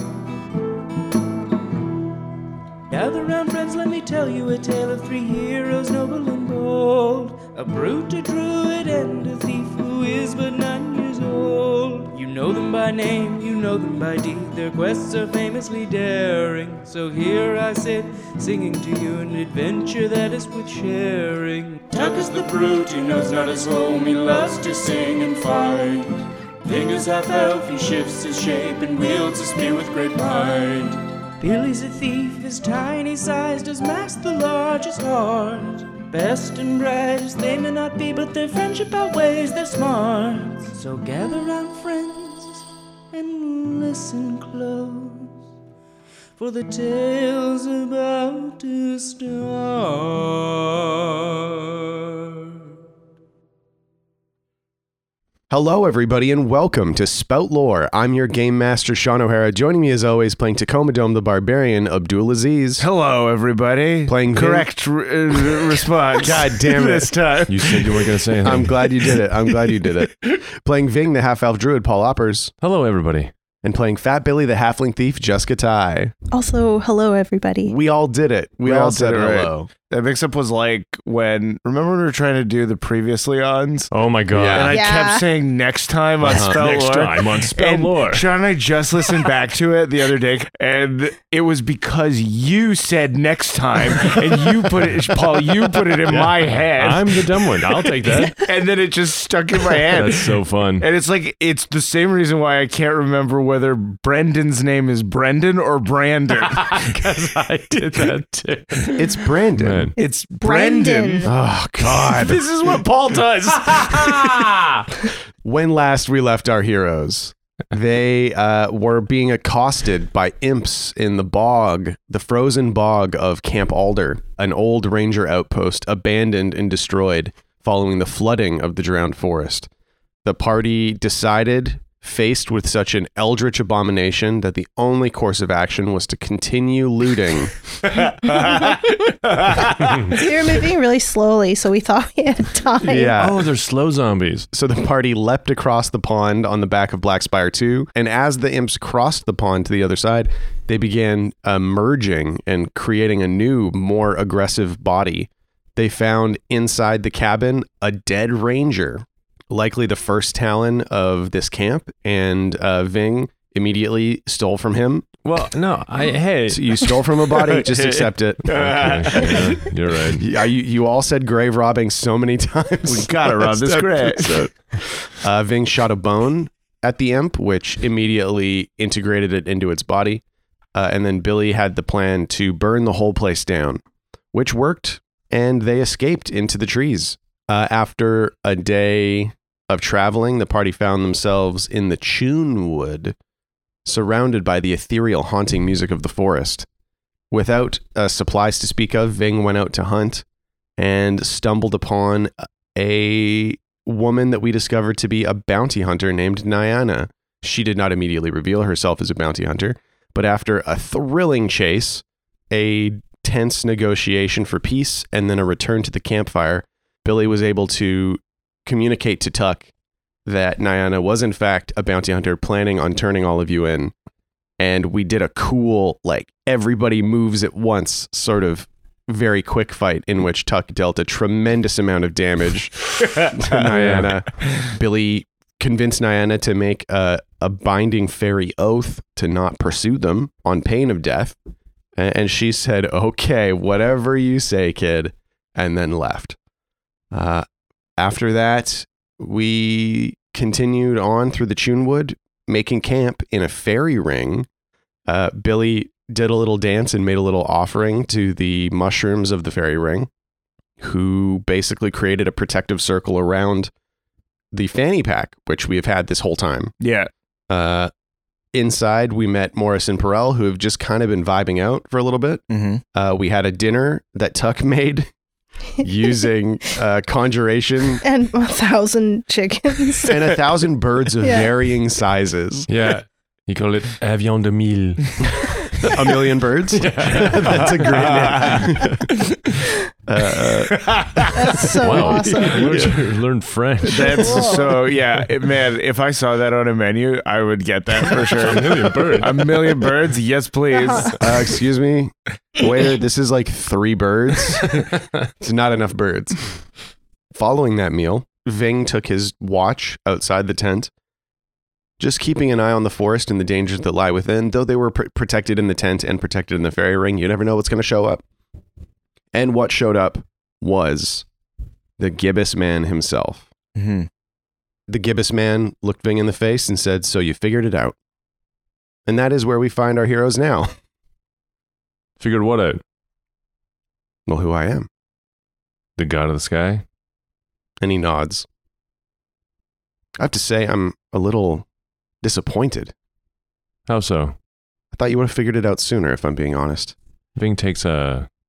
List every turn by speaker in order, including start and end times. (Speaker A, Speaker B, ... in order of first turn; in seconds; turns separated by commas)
Speaker A: 2.9-45.4, Speaker A: 46.4-52.5, Speaker B: 55.5-62.9, Speaker C: 62.8-68.2, Speaker B: 64.1-64.7, Speaker B: 66.1-67.1, Speaker D: 67.5-69.0, Speaker B: 68.4-72.5, Speaker D: 72.6-73.3, Speaker B: 73.6-76.1, Speaker E: 76.3-77.8, Speaker B: 77.7-79.7, Speaker C: 78.6-83.9, Speaker D: 83.9-84.7, Speaker B: 84.3-84.8, Speaker C: 84.5-97.2, Speaker E: 84.7-85.3, Speaker D: 86.2-88.2, Speaker B: 86.3-86.6, Speaker D: 96.1-98.4, Speaker C: 98.4-106.8, Speaker D: 99.9-100.9, Speaker D: 106.5-109.9, Speaker B: 108.9-109.9, Speaker E: 110.0-111.3, Speaker C: 110.0-114.5, Speaker B: 111.2-112.4, Speaker D: 113.6-114.9, Speaker B: 115.4-129.7, Speaker B: 130.2-137.5, Speaker C: 137.8-140.3, Speaker E: 138.5-138.8, Speaker E: 140.1-143.1, Speaker B: 142.8-143.5, Speaker D: 143.2-144.5, Speaker B: 144.5-165.1, Speaker D: 165.2-167.0, Speaker B: 166.5-168.5, Speaker C: 167.3-169.6, Speaker D: 168.5-170.2, Speaker B: 170.2-180.2, Speaker C: 172.9-174.5, Speaker B: 180.8-183.8, Speaker B: 184.3-193.2, Speaker B: 193.8-196.7, Speaker B: 197.3-200.2, Speaker B: 200.8-219.7, Speaker B: 220.3-223.9, Speaker B: 224.6-241.4, Speaker D: 233.7-234.2, Speaker B: 242.0-246.4, Speaker B: 247.1-247.5, Speaker B: 248.0-254.5, Speaker B: 255.1-260.1, Speaker B: 260.8-263.7, Speaker B: 264.5-266.7, Speaker C: 266.8-267.1, Speaker B: 267.5-267.9, Speaker B: 268.5-272.4, Speaker C: 272.5-272.8, Speaker B: 272.9-275.1, Speaker B: 275.8-278.0, Speaker E: 278.0-280.2, Speaker B: 280.1-282.7, Speaker E: 281.2-281.5, Speaker D: 282.7-286.0, Speaker B: 285.9-289.2, Speaker D: 286.7-288.6, Speaker C: 287.9-289.2, Speaker B: 290.1-291.0, Speaker C: 290.7-292.9, Speaker E: 291.3-292.7, Speaker D: 291.8-294.7, Speaker B: 292.6-292.9, Speaker C: 293.8-301.3, Speaker E: 293.9-294.7, Speaker D: 298.3-299.9, Speaker E: 300.7-301.2, Speaker B: 301.2-306.4, Speaker B: 307.3-310.9, Speaker B: 312.0-318.2, Speaker B: 319.3-321.3, Speaker B: 322.0-323.5, Speaker C: 323.8-324.1, Speaker B: 324.9-328.0, Speaker B: 329.1-330.7, Speaker D: 332.2-332.8, Speaker B: 334.3-334.9, Speaker D: 336.0-336.8, Speaker B: 337.8-338.5, Speaker B: 340.2-341.7, Speaker B: 342.2-342.9, Speaker D: 343.9-344.4, Speaker B: 344.9-346.9, Speaker D: 347.4-348.3